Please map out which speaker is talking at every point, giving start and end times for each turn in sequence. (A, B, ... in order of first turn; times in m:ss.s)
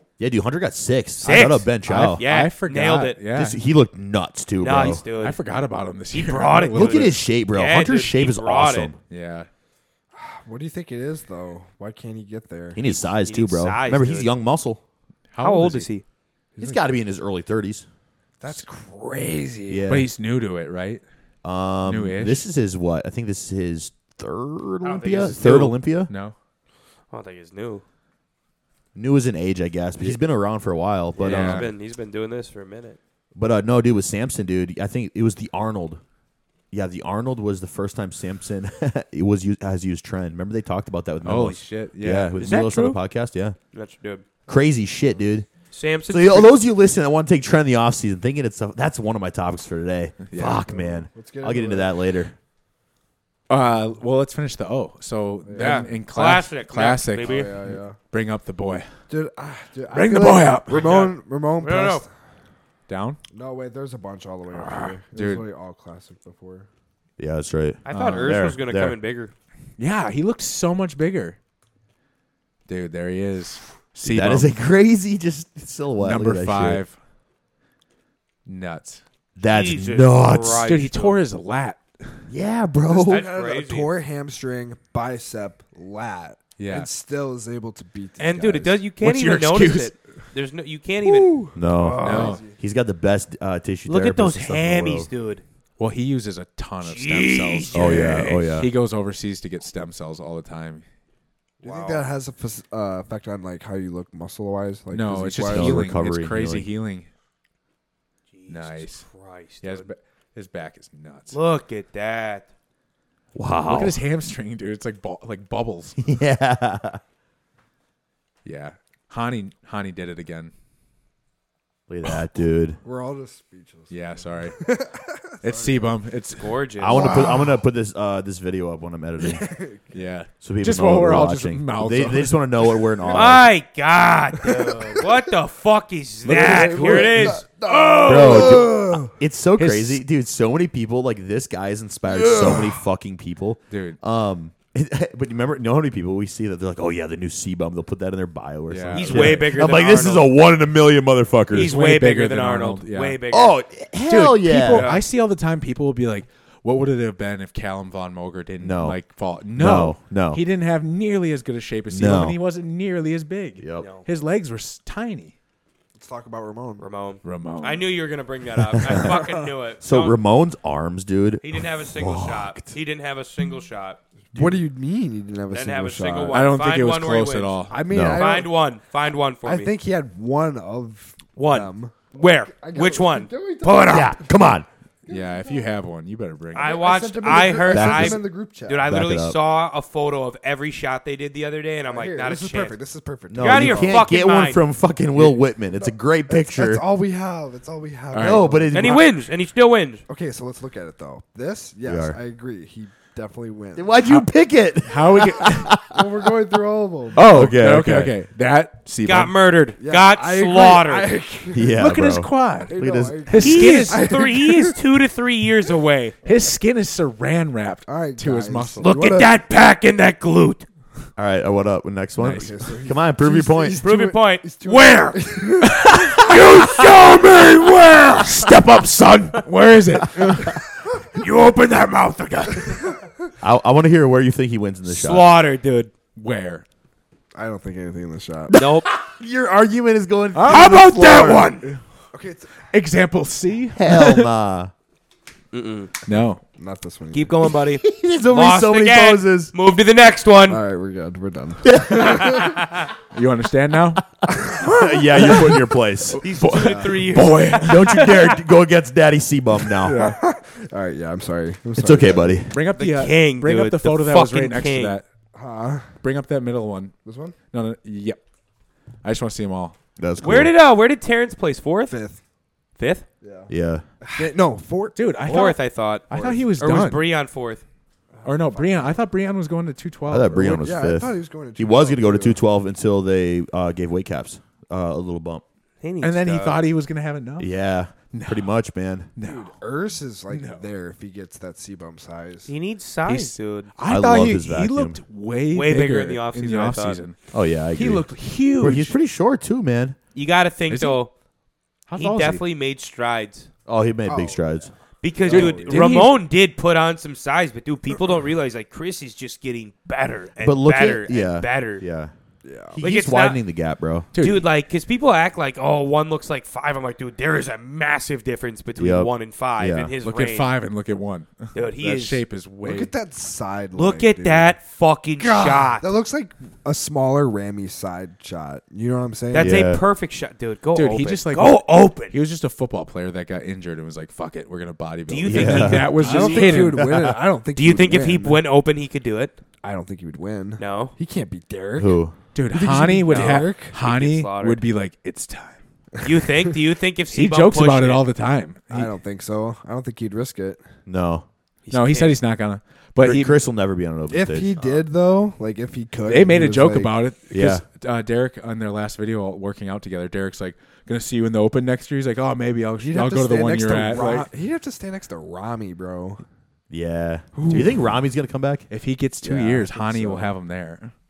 0:00.2-0:02.2 A
0:01.2-0:03.2 B
0:01.8-0:03.6 C
0:03.3-0:05.0 A
0:04.6-0:05.4 B
0:05.2-0:07.2 C
0:06.1-0:08.9 B
0:06.7-0:09.0 A
0:09.1-0:09.5 C
0:10.1-0:12.9 D
0:12.8-0:14.8 A
0:13.2-0:14.3 B
0:15.3-0:15.9 C
0:15.4-0:16.0 B
0:16.6-0:16.8 D
0:16.6-0:17.9 A
0:18.4-0:19.9 D
0:19.7-0:20.1 A
0:19.9-0:21.0 C
0:21.4-0:26.1 A
0:21.9-0:22.4 C
0:24.8-0:25.7 B
0:25.3-0:26.4 C
0:27.1-0:27.8 B
0:29.0-0:31.7 A
0:31.2-0:33.0 B
0:31.2-0:31.7 C
0:33.4-0:36.0 A
0:36.7-0:43.6 A
0:41.2-0:42.5 C
0:42.4-0:43.0 B
0:43.7-0:44.2 B
0:44.5-0:45.5 A
0:45.7-0:46.6 B
0:46.1-0:52.3 A
0:50.3-0:50.6 C
0:50.6-0:51.9 D
0:53.5-0:58.9 C
0:55.4-0:55.9 D
0:55.6-0:57.5 B
0:57.2-0:58.0 D
0:59.1-1:02.1 D
0:59.9-1:01.1 C
1:00.7-1:02.0 B
1:02.9-1:03.2 C
1:03.3-1:06.7 D
1:04.5-1:05.4 C
1:07.2-1:09.0 A
1:07.8-1:09.3 B
1:07.9-1:08.4 C
1:09.8-1:11.4 C
1:12.7-1:14.5 C
1:14.0-1:16.8 A
1:16.0-1:17.0 C
1:18.5-1:19.0 C
1:19.4-1:20.6 A
1:19.5-1:21.2 B
1:20.7-1:22.2 C
1:22.3-1:23.3 A
1:22.9-1:28.8 D
1:23.1-1:23.9 B
1:26.6-1:26.9 C
1:28.2-1:32.4 B
1:29.0-1:29.9 C
1:31.0-1:32.6 D
1:31.6-1:35.1 A
1:32.0-1:32.4 C
1:33.9-1:35.4 B
1:35.8-1:40.8 C
1:36.8-1:38.6 B
1:37.7-1:38.7 A
1:41.6-1:42.1 B
1:41.6-1:45.8 D
1:44.9-1:47.1 C
1:45.5-1:46.7 A
1:48.3-1:49.9 B
1:48.5-1:49.0 C
1:49.6-1:51.4 C
1:51.3-1:52.5 B
1:53.4-1:54.0 A
1:53.7-1:56.0 C
1:56.0-1:57.0 A
1:58.4-2:00.5 C
2:01.9-2:02.8 A
2:02.8-2:05.9 D
2:03.9-2:04.6 C
2:05.4-2:07.5 C
2:06.4-2:07.3 B
2:06.8-2:09.5 A
2:06.9-2:07.4 D
2:09.2-2:09.9 D
2:09.9-2:12.9 C
2:10.4-2:13.5 A
2:13.1-2:18.7 B
2:14.4-2:15.2 D
2:16.3-2:17.4 C
2:16.3-2:19.1 D
2:18.0-2:31.7 A
2:19.6-2:20.0 C
2:22.1-2:22.8 D
2:23.7-2:24.0 C
2:28.7-2:29.5 C
2:28.9-2:30.3 B
2:31.5-2:33.2 C
2:31.5-2:33.6 B
2:33.3-2:34.9 A
2:34.1-2:45.3 C
2:34.7-2:35.0 B
2:38.6-2:39.0 A
2:39.6-2:40.4 A
2:41.9-2:42.4 A
2:43.6-2:43.9 A
2:43.8-2:44.1 B
2:46.0-2:46.9 D
2:46.8-2:50.2 B
2:47.2-2:47.8 C
2:48.9-2:49.1 A
2:48.9-2:49.4 D
2:49.8-2:52.8 A
2:51.4-2:54.0 B
2:54.3-2:56.4 D
2:55.5-2:59.7 B
2:56.3-2:57.8 C
2:57.7-2:58.5 D
2:57.9-2:58.2 A
2:59.4-3:04.5 D
3:01.4-3:04.2 B
3:03.9-3:04.7 A
3:05.1-3:05.7 D
3:05.1-3:06.8 C
3:06.6-3:09.0 D
3:06.6-3:12.8 B
3:07.7-3:08.2 A
3:08.8-3:09.4 A
3:11.9-3:14.0 D
3:13.3-3:16.8 A
3:13.4-3:14.6 B
3:15.8-3:18.9 D
3:18.1-3:18.5 C
3:18.2-3:19.0 A
3:18.7-3:20.0 B
3:20.1-3:24.0 D
3:21.8-3:22.2 A
3:23.8-3:26.3 A
3:24.8-3:25.7 C
3:25.9-3:27.3 D
3:27.2-3:29.3 C
3:27.2-3:28.1 A
3:29.0-3:31.1 B
3:29.8-3:31.8 D
3:31.5-3:33.4 A
3:31.7-3:34.1 C
3:32.7-3:34.8 D
3:33.4-3:36.1 B
3:36.2-3:39.0 C
3:37.9-3:39.3 D
3:38.8-3:40.6 B
3:41.2-3:43.8 A
3:42.2-3:42.6 C
3:42.3-3:46.4 D
3:43.8-3:45.3 B
3:45.6-3:50.6 C
3:46.1-3:48.5 B
3:51.2-3:52.9 B
3:52.5-3:52.8 C
3:52.7-3:53.0 D
3:53.4-3:55.3 A
3:54.9-3:55.9 B
3:56.2-3:56.6 C
3:57.3-3:58.6 D
3:58.5-4:01.5 A
3:58.5-3:58.9 B
4:00.3-4:01.8 C
4:00.5-4:01.7 B
4:02.1-4:02.5 D
4:02.7-4:04.3 C
4:03.8-4:04.7 A
4:05.5-4:05.9 B
4:06.1-4:06.4 C
4:06.6-4:07.3 D
4:07.1-4:10.6 B
4:07.8-4:09.5 A
4:10.5-4:12.6 D
4:11.6-4:12.5 A
4:12.0-4:12.9 B
4:13.1-4:14.0 C
4:14.2-4:16.2 A
4:14.3-4:15.4 D
4:15.1-4:18.3 C
4:16.1-4:18.2 B
4:16.5-4:17.0 D
4:17.6-4:20.1 A
4:19.7-4:20.2 C
4:19.9-4:22.4 D
4:21.8-4:22.6 A
4:22.5-4:25.0 C
4:22.7-4:25.0 B
4:25.4-4:25.9 D
4:26.0-4:27.0 C
4:27.0-4:27.4 D
4:27.5-4:28.2 C
4:29.0-4:29.8 C
4:30.0-4:30.5 A
4:30.2-4:32.0 B
4:31.9-4:32.2 D
4:32.8-4:33.0 B
4:33.2-4:33.5 D
4:33.5-4:33.8 A
4:34.0-4:35.5 D
4:35.0-4:37.0 C
4:35.3-4:37.6 B
4:36.1-4:36.4 D
4:38.1-4:39.0 D
4:38.2-4:40.6 C
4:40.1-4:45.4 A
4:40.4-4:42.4 D
4:45.8-4:46.6 B
4:46.0-4:47.5 C
4:47.4-4:49.1 A
4:48.1-4:48.5 C
4:49.2-4:49.5 C
4:49.2-4:52.5 D
4:50.3-4:50.6 C
4:52.5-4:53.7 B
4:53.1-4:57.2 C
4:53.9-4:55.0 A
4:55.5-4:57.0 B
4:57.3-5:00.0 A
4:57.7-4:59.0 C
5:00.1-5:01.1 B
5:00.7-5:01.0 C
5:01.9-5:02.4 C
5:02.0-5:03.5 B
5:03.7-5:04.7 A
5:04.1-5:04.5 D
5:05.0-5:11.8 B
5:05.2-5:05.9 D
5:05.3-5:06.1 C
5:10.4-5:12.1 A
5:12.4-5:12.8 D
5:12.8-5:14.1 A
5:12.8-5:13.4 B
5:14.1-5:14.4 C
5:14.2-5:20.5 B
5:18.8-5:19.9 A
5:20.0-5:22.9 C
5:21.6-5:22.2 B
5:22.6-5:24.5 D
5:23.8-5:25.9 B
5:25.2-5:29.6 D
5:29.3-5:32.1 B
5:29.3-5:29.8 A
5:30.8-5:36.8 C
5:35.1-5:36.7 B
5:35.2-5:35.9 A
5:36.0-5:38.4 D
5:36.6-5:37.2 A
5:37.6-5:39.4 B
5:39.6-5:43.7 D
5:40.6-5:41.0 B
5:41.8-5:42.1 A
5:42.4-5:45.6 C
5:43.1-5:44.6 B
5:46.0-5:48.0 B
5:47.1-5:48.9 C
5:48.7-5:50.6 D
5:50.9-5:51.3 A
5:51.6-5:52.2 B
5:51.7-5:53.4 C
5:53.0-5:54.6 A
5:54.1-5:56.9 D
5:56.1-6:04.3 C
5:57.3-5:57.6 A
6:02.8-6:06.2 D
6:06.7-6:08.6 A
6:07.4-6:07.8 D
6:08.7-6:10.9 C
6:09.2-6:10.3 D